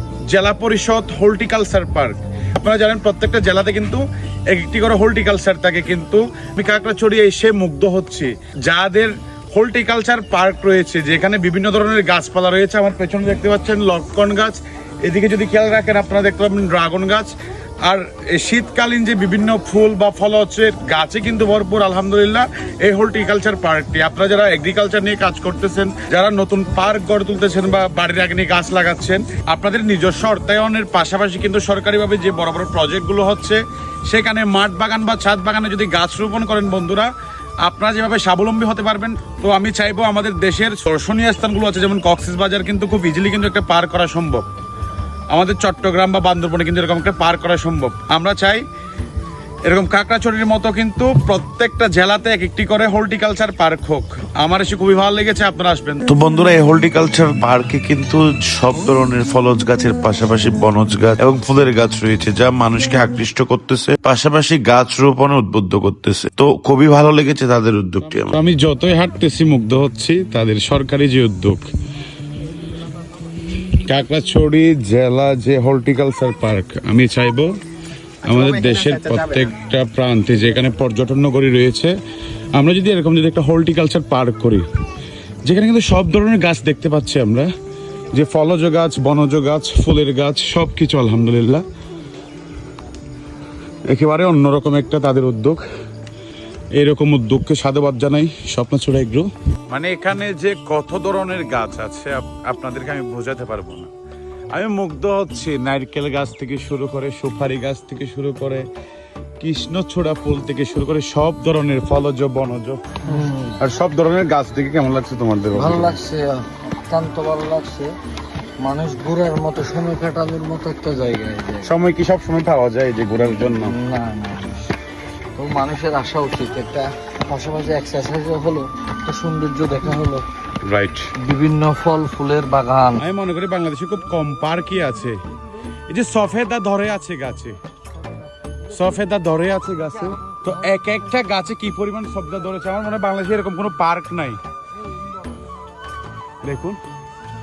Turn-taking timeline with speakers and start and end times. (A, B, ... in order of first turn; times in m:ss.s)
0:00.3-0:17.3 A
0:17.8-0:37.1 A
0:37.6-0:44.4 A
0:45.3-0:48.6 A
0:49.7-0:56.1 A
0:56.1-1:08.4 B
1:08.3-1:11.7 A
1:13.8-1:17.5 A
1:18.3-1:22.0 A
1:22.5-1:24.6 A
1:25.5-1:27.5 A
1:28.1-1:31.6 A
1:33.9-1:35.6 A
1:36.8-1:43.9 A
1:44.5-1:48.6 A
1:49.4-1:52.8 A
1:53.1-1:53.6 C
1:53.6-1:56.0 A
1:55.6-1:57.9 C
1:58.6-2:01.7 C
2:01.6-2:03.8 A
2:03.4-2:04.7 C
2:05.4-2:10.2 C
2:10.7-2:11.1 A
2:11.2-2:13.0 C
2:13.0-2:15.2 A
2:15.9-2:17.6 A
2:18.7-2:24.4 A
2:26.4-2:26.8 A